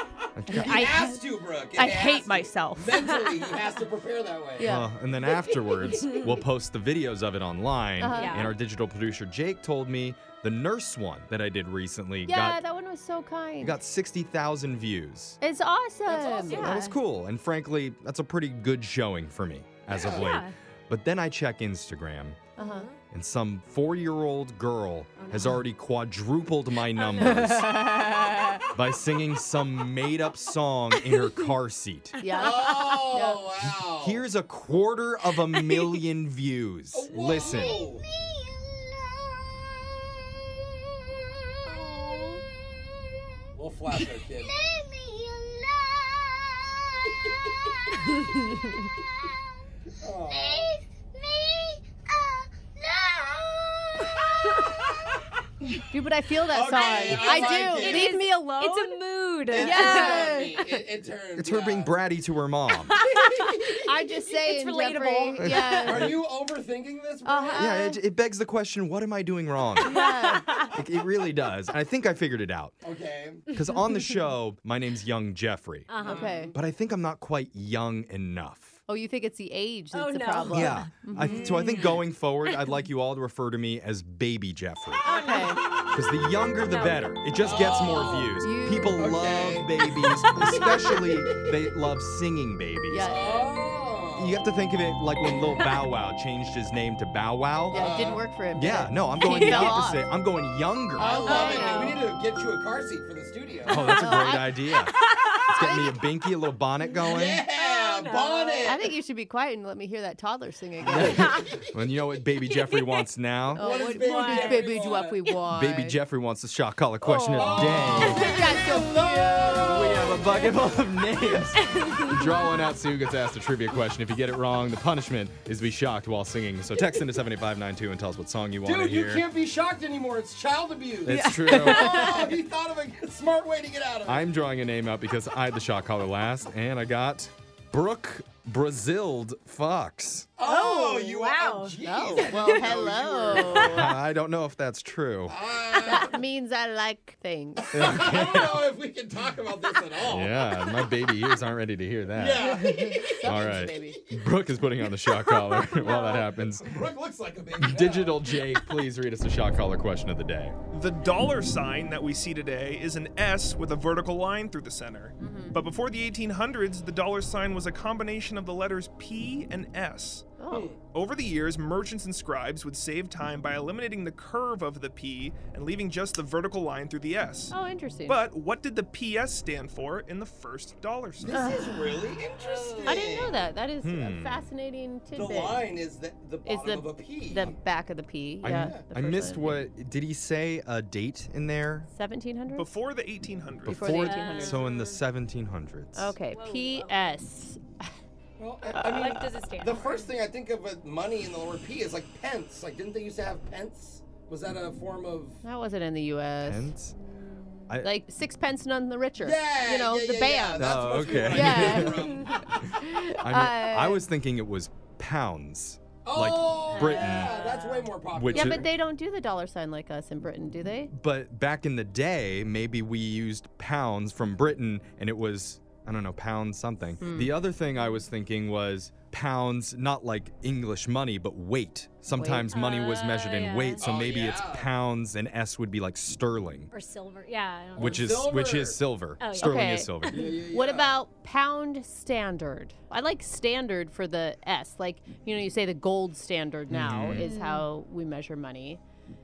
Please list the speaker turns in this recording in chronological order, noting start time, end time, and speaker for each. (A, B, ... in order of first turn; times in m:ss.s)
0:00.4-0:00.8 A
0:00.5-0:03.3 B
0:00.6-0:04.8 C
0:04.6-0:04.9 B
0:04.6-0:12.6 A
0:06.0-0:06.2 D
0:08.0-0:08.5 B
0:08.1-0:08.5 D
0:12.3-0:13.8 B
0:13.6-0:15.4 A
0:15.4-0:17.0 B
0:16.1-0:16.6 C
0:16.5-0:16.8 D
0:16.5-0:22.4 A
0:19.9-0:20.3 C
0:20.1-0:20.5 D
0:22.6-0:22.9 B
0:22.6-0:23.0 D
0:23.1-0:28.0 A
0:25.2-0:25.6 D
0:27.2-0:28.6 B
0:28.7-0:32.2 A
0:32.2-0:33.7 B
0:32.2-0:32.6 D
0:32.3-0:34.3 C
0:34.0-0:37.8 A
0:35.5-0:35.8 D
0:36.9-0:38.0 C
0:41.7-0:42.4 D
0:43.5-0:44.6 C
0:50.0-0:50.8 C
0:55.9-1:00.7 B
0:56.5-0:58.2 C
0:56.8-1:00.6 D
0:59.5-1:02.0 C
1:01.4-1:03.0 A
1:03.0-1:03.7 D
1:03.0-1:03.8 C
1:03.7-1:06.2 B
1:04.4-1:05.8 D
1:05.4-1:06.1 A
1:05.8-1:07.8 C
1:07.2-1:08.0 B
1:07.6-1:10.1 A
1:09.8-1:10.7 B
1:10.7-1:12.8 A
1:12.8-1:13.5 C
1:13.5-1:15.9 A
1:13.7-1:14.0 D
1:15.9-1:16.5 D
1:16.0-1:16.5 C
1:16.0-1:16.6 B
1:16.5-1:18.8 A
1:18.9-1:21.6 B
1:19.9-1:21.8 D
1:20.5-1:25.0 A
1:21.4-1:22.0 C
1:25.0-1:25.7 D
1:25.0-1:25.6 B
1:25.9-1:33.2 A
1:26.6-1:27.1 D
1:27.4-1:28.4 C
1:28.4-1:29.2 B
1:29.0-1:31.7 C
1:32.9-1:33.5 B
1:33.0-1:34.4 C
1:34.2-1:37.9 A
1:37.7-1:38.2 C
1:37.7-1:40.1 B
1:38.6-1:41.3 A
1:39.2-1:39.7 D
1:41.0-1:42.0 B
1:41.0-1:43.9 C
1:41.2-1:42.0 D
1:43.7-1:47.4 A
1:43.7-1:44.6 B
1:45.5-1:46.0 B
1:47.0-1:48.8 C
1:47.5-1:48.8 D
1:48.6-1:51.5 B
1:50.9-1:53.7 A
1:53.6-1:56.0 B
1:53.6-1:55.2 C
1:54.0-1:54.6 D
1:55.5-1:58.3 A
1:57.0-2:00.3 B
1:57.4-2:00.6 C
1:59.7-2:09.2 A
2:01.7-2:02.0 D
2:08.6-2:14.3 C
2:11.0-2:12.1 A
2:11.1-2:12.3 B
2:14.1-2:20.3 A
2:20.4-2:23.9 C
2:20.4-2:22.6 D
2:21.8-2:23.9 B
2:23.4-2:25.4 A
2:25.3-2:26.2 C
2:25.7-2:27.8 B
2:27.6-2:30.9 C
2:27.7-2:28.7 A
2:30.0-2:36.8 A
2:32.1-2:33.7 C
2:32.4-2:34.0 B
2:35.7-2:36.2 B
2:35.8-2:38.6 C
2:37.6-2:40.6 A
2:40.7-2:50.3 E
2:45.2-2:45.6 B
2:50.4-2:50.7 B
2:50.5-2:50.8 C
2:50.9-3:01.4 E
2:57.5-2:58.2 B
3:01.2-3:03.5 C
3:01.3-3:02.1 B
3:02.4-3:03.1 D
3:02.8-3:05.6 B
3:03.8-3:04.4 A
3:05.1-3:07.6 C
3:06.4-3:09.6 B
3:08.4-3:11.9 A
3:08.5-3:08.8 C
3:11.9-3:12.7 B
3:12.6-3:14.0 E
3:13.6-3:14.7 B
3:13.7-3:16.2 A
3:13.9-3:15.0 D
3:16.0-3:17.9 B
3:16.3-3:17.2 D
3:18.4-3:25.4 C
3:18.8-3:19.2 B
3:18.9-3:20.2 D
3:25.4-3:26.7 B
3:26.4-3:26.9 A
3:27.2-3:27.6 D
3:27.7-3:27.9 A
3:27.7-3:34.1 B
3:29.2-3:32.3 C
3:30.6-3:32.2 A
3:33.2-3:37.3 A
3:36.0-3:38.7 C
3:36.7-3:37.9 D
3:38.1-3:38.7 A
3:38.3-3:40.9 B
3:40.9-3:56.7 A
3:47.0-3:47.3 B
3:52.2-3:52.6 B
3:52.5-3:53.8 D
3:53.8-3:54.7 C
3:56.7-3:58.0 D
3:57.8-4:00.3 A
3:57.8-3:58.8 C
3:59.2-4:00.1 D
3:59.4-4:08.8 B
4:00.1-4:01.0 C
4:06.7-4:07.3 A
4:07.2-4:07.7 D